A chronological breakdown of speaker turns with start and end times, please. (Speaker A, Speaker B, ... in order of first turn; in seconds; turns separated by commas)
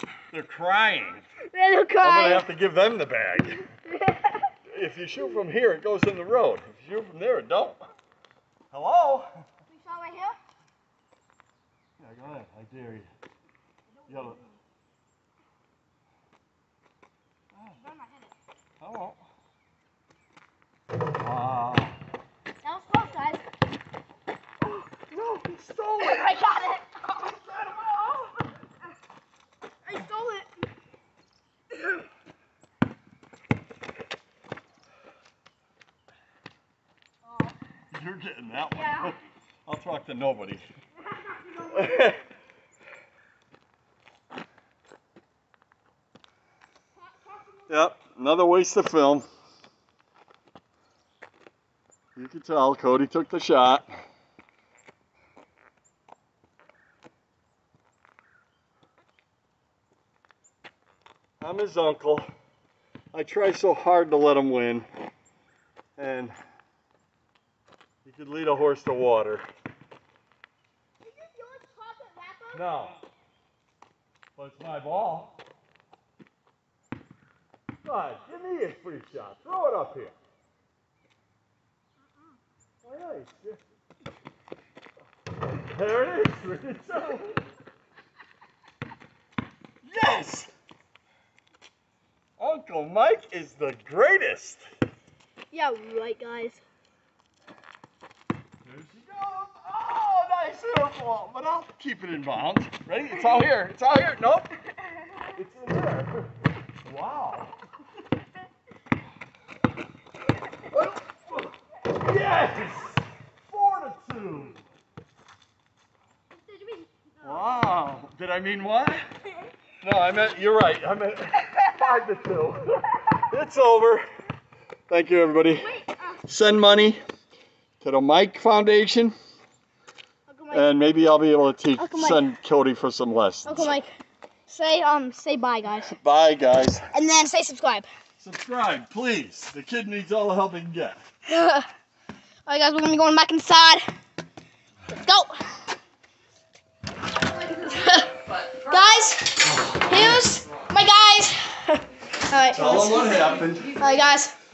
Speaker A: 0.3-1.3, Speaker B: 1.4-2.5, Speaker A: 2.0-3.6, Speaker B: 3.6-4.5, Speaker A: 4.7-7.8, Speaker A: 8.7-9.4, Speaker B: 9.7-10.4, Speaker A: 12.0-13.1, Speaker B: 13.9-14.6, Speaker A: 14.1-14.4, Speaker A: 17.5-17.8, Speaker B: 17.8-18.4, Speaker A: 18.8-19.3, Speaker A: 21.2-22.0, Speaker B: 22.6-23.5, Speaker A: 24.6-26.4, Speaker B: 26.0-28.7, Speaker B: 29.9-30.7, Speaker B: 37.2-37.6, Speaker A: 37.9-40.7, Speaker B: 38.7-39.2, Speaker B: 41.0-42.2, Speaker A: 41.7-42.2, Speaker B: 46.9-47.9, Speaker A: 47.7-49.3, Speaker A: 52.2-53.9, Speaker A: 61.4-62.3, Speaker A: 63.1-64.9, Speaker A: 66.0-66.3, Speaker A: 68.0-69.5, Speaker B: 71.0-72.7, Speaker A: 72.5-73.0, Speaker A: 74.4-75.3, Speaker A: 77.8-80.2, Speaker A: 82.8-83.6, Speaker A: 85.5-87.5, Speaker A: 89.8-90.5, Speaker A: 92.4-94.6, Speaker B: 95.5-96.6, Speaker A: 98.6-104.5, Speaker A: 105.3-106.3, Speaker A: 106.8-107.6, Speaker A: 110.6-114.7, Speaker B: 116.3-117.7, Speaker A: 117.2-119.1, Speaker A: 119.8-124.1, Speaker B: 121.5-121.8, Speaker A: 124.9-127.0, Speaker B: 125.6-126.2, Speaker A: 127.8-129.2, Speaker B: 130.3-130.7, Speaker A: 130.5-133.7, Speaker B: 131.8-132.3, Speaker B: 133.5-133.9, Speaker B: 134.5-136.0, Speaker A: 135.9-136.9, Speaker B: 136.9-137.9, Speaker A: 138.2-141.0, Speaker B: 141.3-141.7, Speaker B: 142.5-143.8, Speaker B: 144.9-145.7, Speaker B: 147.4-154.3, Speaker A: 149.5-150.2, Speaker A: 152.5-153.7